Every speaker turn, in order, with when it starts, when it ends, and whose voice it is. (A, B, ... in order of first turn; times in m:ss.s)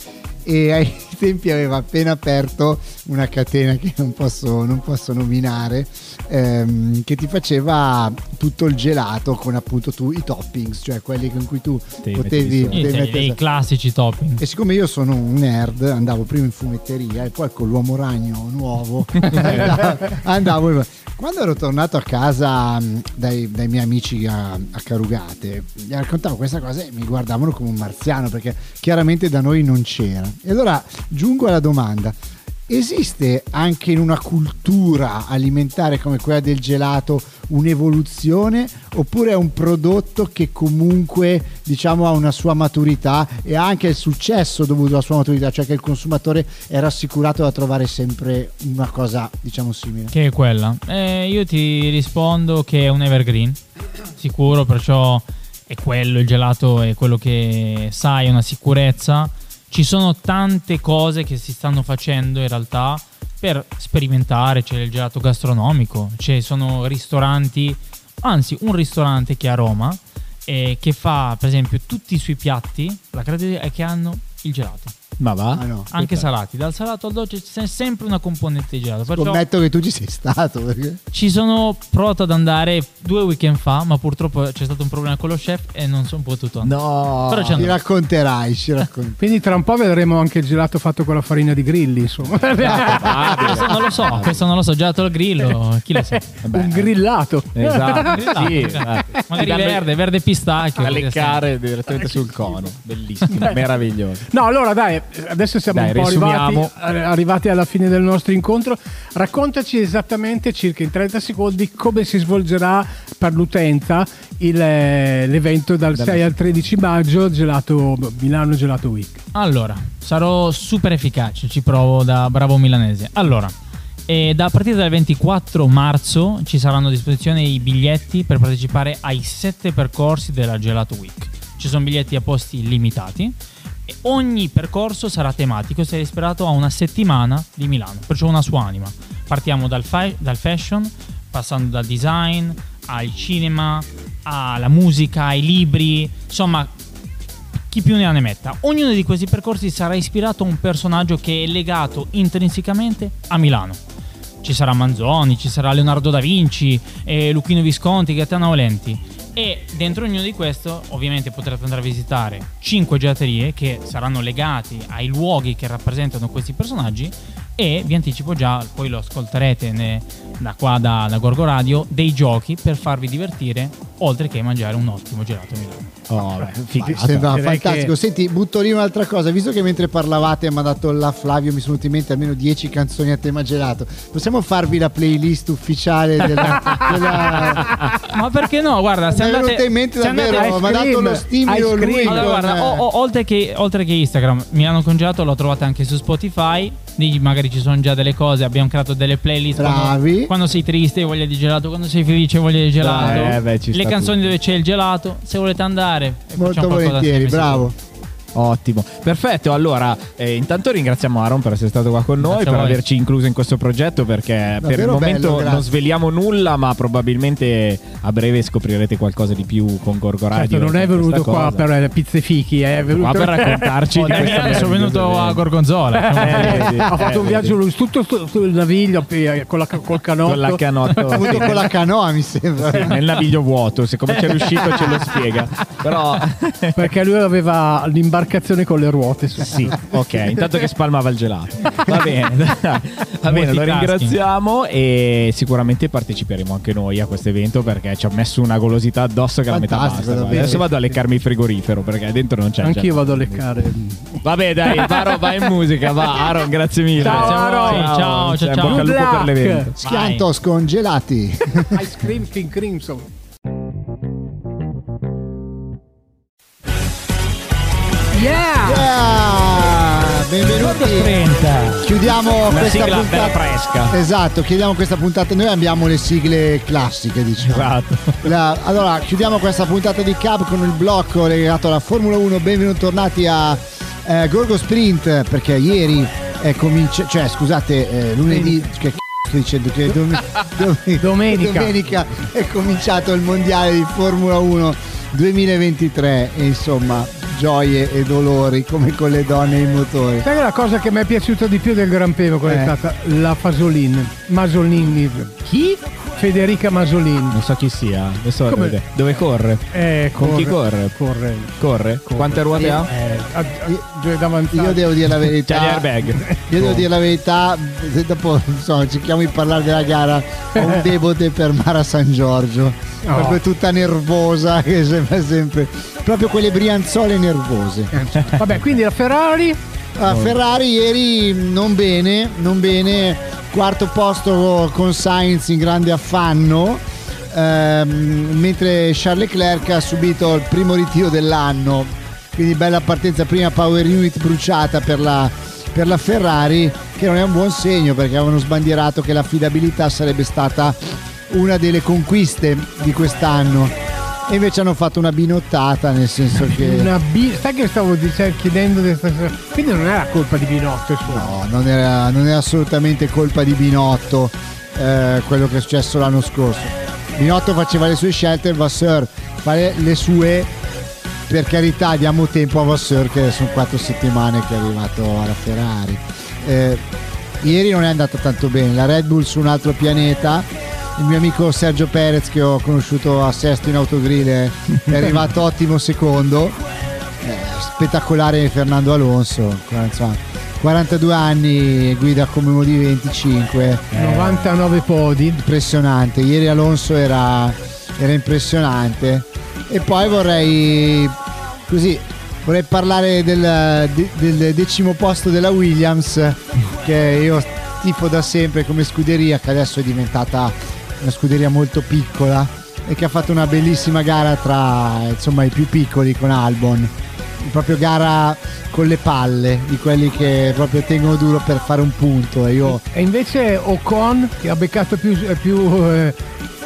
0:00.4-0:13.4 A
0:12.0-0:13.0 B
0:12.7-0:14.4 C
0:14.4-0:50.1 A
0:19.2-0:19.9 B
0:50.1-0:53.6 C
0:54.2-1:14.9 C
1:15.2-1:16.2 B
1:15.5-1:15.9 A
1:15.9-1:19.4 C
1:19.1-1:21.0 A
1:21.1-1:26.7 C
1:26.6-1:27.7 B
1:27.2-1:27.7 C
1:27.6-1:29.2 A
1:29.2-1:33.6 D
1:32.6-1:34.4 B
1:33.5-1:36.2 C
1:36.1-1:39.2 D
1:36.4-1:36.9 B
1:37.5-1:39.8 B
1:38.1-1:41.4 C
1:40.8-1:44.2 B
1:42.0-1:42.4 D
1:43.2-1:43.6 D
1:44.3-1:59.2 D
1:45.7-1:46.7 B
1:55.9-1:56.7 B
1:59.3-2:03.5 C
2:04.1-2:13.3 C
2:13.9-2:26.7 C
2:27.7-2:33.8 C
2:34.4-2:55.9 C
2:56.1-2:57.3 B
2:56.8-3:07.8 A
2:57.3-2:57.9 D
3:08.1-3:10.8 C
3:09.1-3:12.8 A
3:10.3-3:12.3 D
3:12.0-3:27.7 C
3:19.6-3:20.3 A
3:22.8-3:24.3 B
3:26.3-3:27.8 A
3:28.3-3:41.7 B
3:32.2-3:32.8 C
3:34.6-3:35.7 A
3:40.3-3:44.7 D
3:42.9-3:45.4 B
3:43.9-3:46.8 C
3:45.9-3:51.6 D
3:46.2-3:47.6 B
3:50.2-3:51.7 B
3:51.1-3:53.0 A
3:52.6-3:56.8 B
3:54.3-3:54.8 D
3:56.8-4:00.6 D
3:59.4-4:13.6 B
4:03.3-4:04.2 C
4:09.5-4:10.7 A
4:10.3-4:10.9 D
4:12.6-4:18.0 D
4:14.2-4:19.7 B
4:17.0-4:18.9 C
4:18.6-4:19.7 D
4:19.8-4:21.9 A
4:19.8-4:20.2 C
4:21.7-4:23.1 D
4:28.1-4:28.9 D
4:28.6-4:31.2 A
4:30.5-4:31.8 C
4:31.8-5:00.3 A
4:32.5-4:33.9 B
4:37.4-4:38.3 B
4:48.3-4:48.7 D
4:51.0-4:52.1 D
5:00.2-5:07.4 D
5:02.4-5:02.7 A
5:07.3-5:11.0 B
5:08.5-5:08.8 D
5:09.7-5:11.5 D
5:11.6-5:12.9 B
5:12.0-5:15.1 D
5:14.5-5:27.9 A
5:15.4-5:16.7 B
5:20.6-5:20.8 D
5:23.0-5:23.4 D
5:27.9-5:29.6 D
5:30.0-5:56.9 A
5:30.1-5:30.4 B
5:56.4-6:01.4 D
6:01.0-6:10.5 A
6:11.3-6:16.8 A
6:17.4-6:26.6 A
6:27.2-6:33.9 A
6:33.9-6:34.5 B
6:33.9-6:35.4 D
6:35.4-7:02.8 A
7:02.6-7:06.2 D